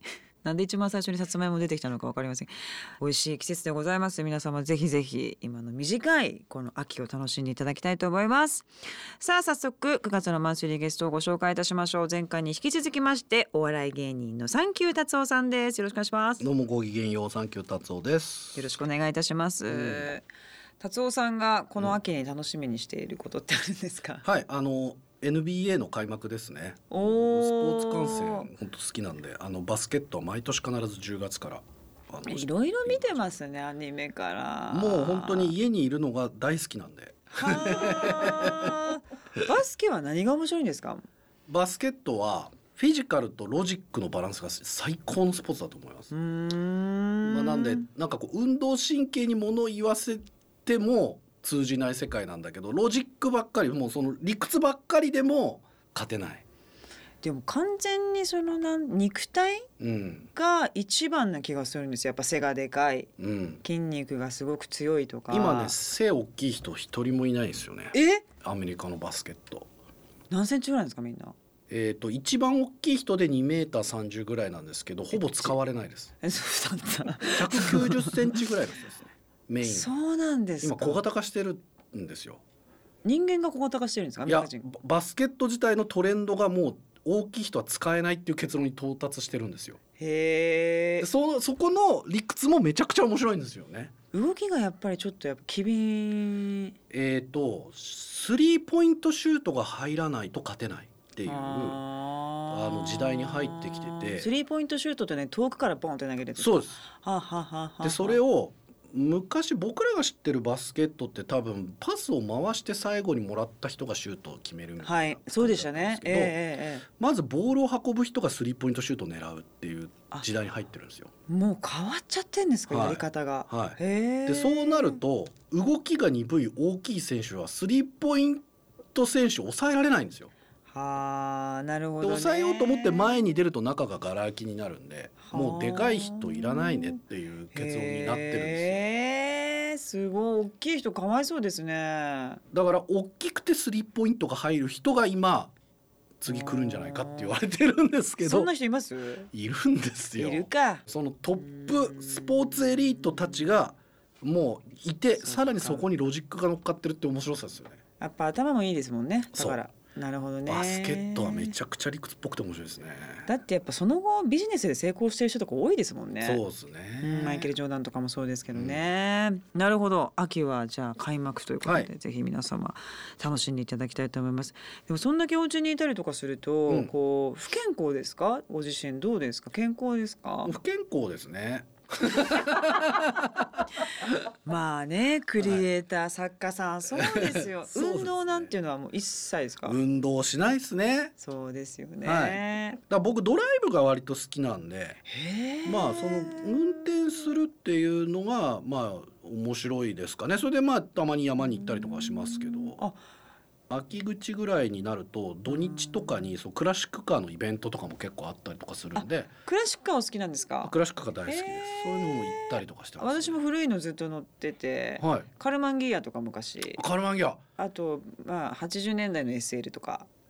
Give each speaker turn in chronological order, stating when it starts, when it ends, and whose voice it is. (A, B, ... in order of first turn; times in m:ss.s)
0:00.4-0:08.7 A
0:09.2-0:16.4 A
0:16.4-0:18.7 B
0:18.6-0:20.2 A
0:19.7-0:20.1 B
0:20.8-0:24.2 A
0:24.2-0:33.3 B
0:26.9-0:28.5 A
0:32.2-0:35.5 A
0:34.7-0:38.8 B
0:37.3-0:41.0 A
0:41.5-0:46.1 B
0:46.1-0:47.8 A
0:47.2-0:56.4 B
0:57.2-0:59.7 A
0:59.8-1:00.3 B
1:00.3-1:03.1 A
1:03.2-1:03.6 B
1:03.6-1:05.8 A
1:05.3-1:09.7 B
1:07.9-1:08.2 A
1:10.3-1:11.3 A
1:11.7-1:16.2 B
1:15.1-1:15.5 A
1:16.2-1:18.3 A
1:17.3-1:19.9 B
1:19.6-1:21.0 A
1:20.6-1:22.4 B
1:23.0-1:24.6 A
1:24.3-1:29.8 B
1:30.0-1:31.1 A
1:31.0-1:33.9 B
1:34.1-1:36.8 A
1:36.9-1:41.8 B
1:41.2-1:48.2 A
1:42.5-1:44.3 B
1:46.4-1:46.8 B
1:47.8-1:56.4 B
1:54.8-1:56.9 A
1:56.9-2:01.1 B
2:01.3-2:05.0 A
2:02.7-2:10.3 B
2:10.7-2:13.2 A
2:12.0-2:18.8 B
2:15.2-2:17.0 A
2:17.5-2:22.4 A
2:22.5-2:25.5 B
2:26.2-2:28.5 B
2:26.2-2:27.4 A
2:28.2-2:29.3 A
2:29.3-2:37.8 B
2:30.2-2:30.8 A
2:31.4-2:33.4 A
2:35.2-2:35.8 A
2:38.0-2:41.5 A
2:39.3-2:39.6 B
2:40.5-2:43.3 B
2:43.2-2:46.4 A
2:46.2-2:47.5 B
2:47.0-3:00.6 A
2:48.5-2:48.8 B
2:51.6-2:51.9 B
3:00.4-3:03.6 B
3:04.4-3:09.8 A
3:06.9-3:08.5 B
3:09.6-3:11.1 B
3:11.2-3:12.8 A
3:12.0-3:15.0 B
3:15.1-3:17.0 A
3:15.6-3:22.8 B
3:21.4-3:23.0 A
3:23.7-3:29.3 B
3:25.5-3:26.3 A
3:28.9-3:30.7 A
3:30.6-3:33.4 B
3:31.3-3:36.8 A
3:35.0-3:35.3 B
3:36.8-3:37.4 B
3:37.6-3:40.1 A